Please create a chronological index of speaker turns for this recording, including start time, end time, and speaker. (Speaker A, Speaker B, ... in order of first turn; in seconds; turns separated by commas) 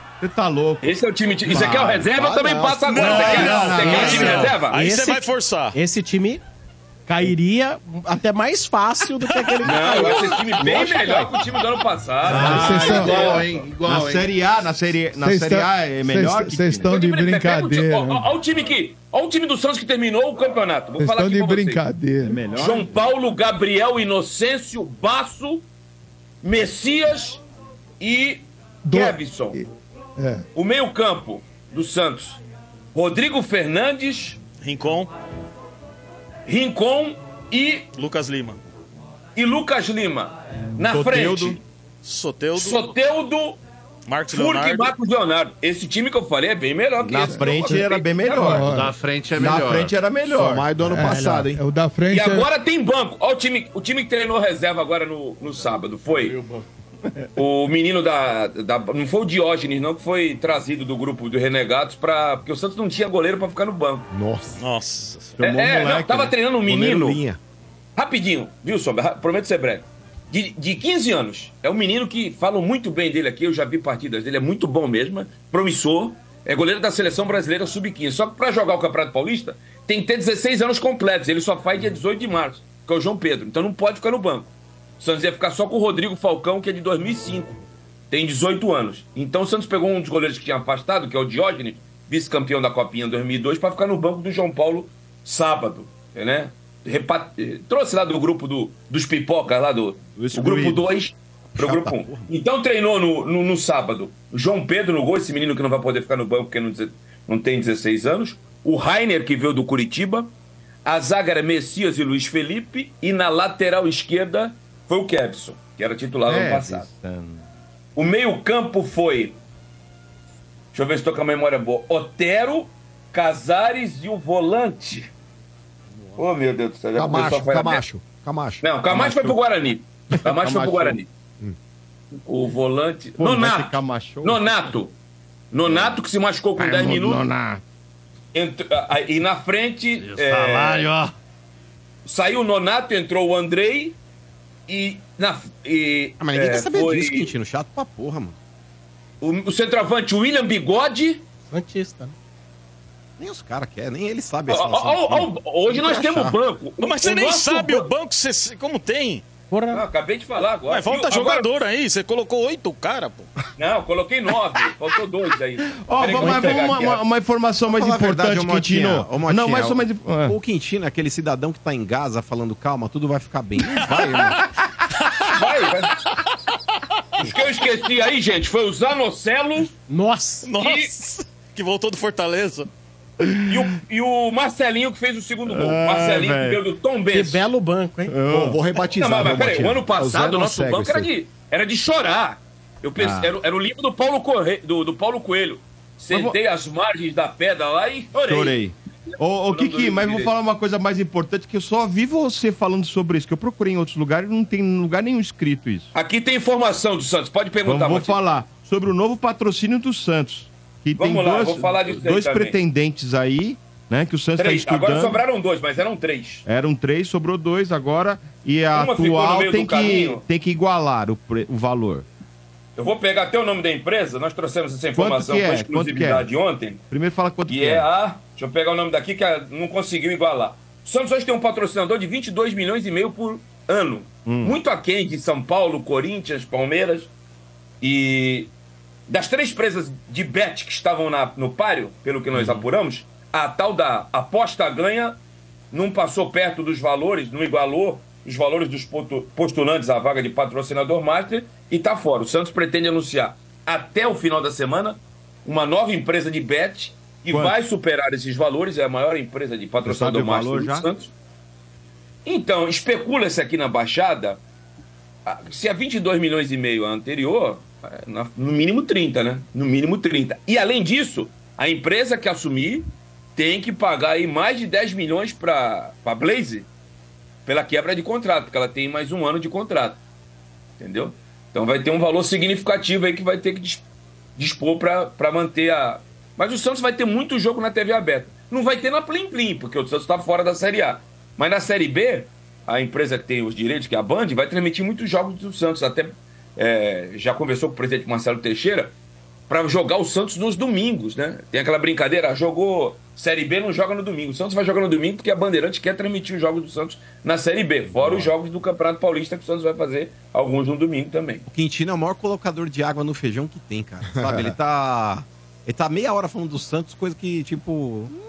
Speaker A: 0.2-2.1, Speaker B: 0.8-4.8, Speaker C: 1.5-4.4, Speaker D: 2.9-5.8, Speaker A: 3.3-4.4, Speaker E: 4.7-6.4, Speaker E: 7.1-10.3, Speaker D: 9.3-10.4, Speaker B: 9.6-13.6, Speaker A: 10.6-11.3, Speaker F: 12.2-14.3, Speaker A: 12.3-16.9, Speaker G: 12.3-13.3, Speaker G: 15.2-18.3, Speaker B: 16.9-21.8, Speaker G: 21.0-22.5, Speaker A: 22.2-23.1, Speaker B: 22.5-25.6, Speaker B: 26.4-27.4, Speaker B: 28.0-29.6, Speaker G: 28.9-30.5, Speaker B: 30.6-32.4, Speaker B: 32.9-34.4, Speaker D: 34.6-35.1, Speaker B: 36.5-37.9, Speaker D: 38.0-38.6, Speaker B: 39.4-41.6, Speaker A: 40.8-41.6, Speaker D: 42.0-42.9, Speaker B: 42.5-43.6, Speaker D: 44.1-44.9, Speaker B: 44.3-48.6, Speaker A: 47.0-48.8, Speaker G: 47.3-47.8, Speaker G: 48.3-49.0, Speaker F: 48.6-49.9, Speaker A: 49.4-50.7, Speaker C: 50.2-51.6, Speaker G: 50.9-52.5, Speaker E: 51.1-51.4, Speaker B: 52.1-56.4, Speaker B: 57.4-64.1, Speaker C: 64.1-64.6, Speaker D: 64.6-65.4, Speaker A: 65.4-66.4, Speaker B: 65.4-67.2, Speaker C: 66.6-67.4, Speaker B: 68.0-87.6, Speaker B: 88.1-110.3, Speaker A: 100.2-100.9, Speaker C: 101.5-102.3, Speaker B: 110.8-116.9, Speaker A: 116.3-117.5, Speaker B: 118.0-119.4, Speaker B: 120.7-125.1, Speaker B: 126.2-127.8, Speaker C: 127.0-128.7, Speaker B: 128.6-131.1, Speaker A: 128.9-129.4, Speaker A: 130.2-131.0, Speaker B: 132.2-134.9, Speaker A: 133.2-134.5, Speaker B: 135.5-137.2, Speaker A: 135.7-136.0, Speaker A: 136.6-137.6, Speaker B: 138.3-140.9, Speaker F: 140.0-141.1, Speaker B: 142.1-144.0, Speaker B: 144.7-147.3, Speaker H: 146.2-148.4, Speaker B: 149.2-151.2, Speaker E: 151.5-152.1, Speaker H: 153.2-156.4, Speaker B: 154.5-157.9, Speaker D: 156.8-159.2, Speaker E: 159.5-159.8, Speaker B: 159.7-161.5, Speaker D: 160.7-163.3, Speaker B: 163.6-167.0, Speaker A: 165.7-170.4, Speaker E: 166.1-166.7, Speaker H: 167.7-174.3, Speaker D: 173.9-174.2, Speaker B: 175.3-176.0, Speaker B: 177.2-179.7, Speaker E: 179.9-180.5, Speaker D: 180.4-182.7, Speaker B: 180.6-180.9, Speaker A: 183.2-183.6, Speaker B: 183.5-187.4, Speaker A: 185.5-186.6, Speaker E: 187.1-188.1, Speaker A: 188.1-188.6, Speaker C: 188.3-191.1, Speaker B: 188.9-198.6, Speaker A: 193.0-193.3, Speaker A: 196.1-196.4, Speaker A: 198.2-205.9, Speaker B: 199.1-200.3, Speaker B: 205.9-208.2, Speaker A: 207.7-215.2, Speaker B: 211.0-212.6, Speaker B: 214.4-216.4, Speaker A: 216.4-222.1, Speaker B: 218.7-220.2, Speaker B: 222.8-226.8, Speaker A: 224.9-226.3, Speaker A: 226.9-227.9, Speaker B: 227.5-237.1, Speaker A: 234.2-234.6, Speaker B: 237.8-238.5, Speaker B: 239.1-245.2, Speaker A: 242.3-242.6, Speaker B: 245.7-261.1, Speaker A: 257.3-257.6, Speaker A: 259.8-260.9, Speaker B: 262.2-264.4, Speaker B: 265.3-276.7, Speaker B: 277.5-280.0, Speaker B: 280.8-298.9, Speaker B: 299.5-311.4, Speaker H: 311.5-318.1, Speaker C: 314.2-314.5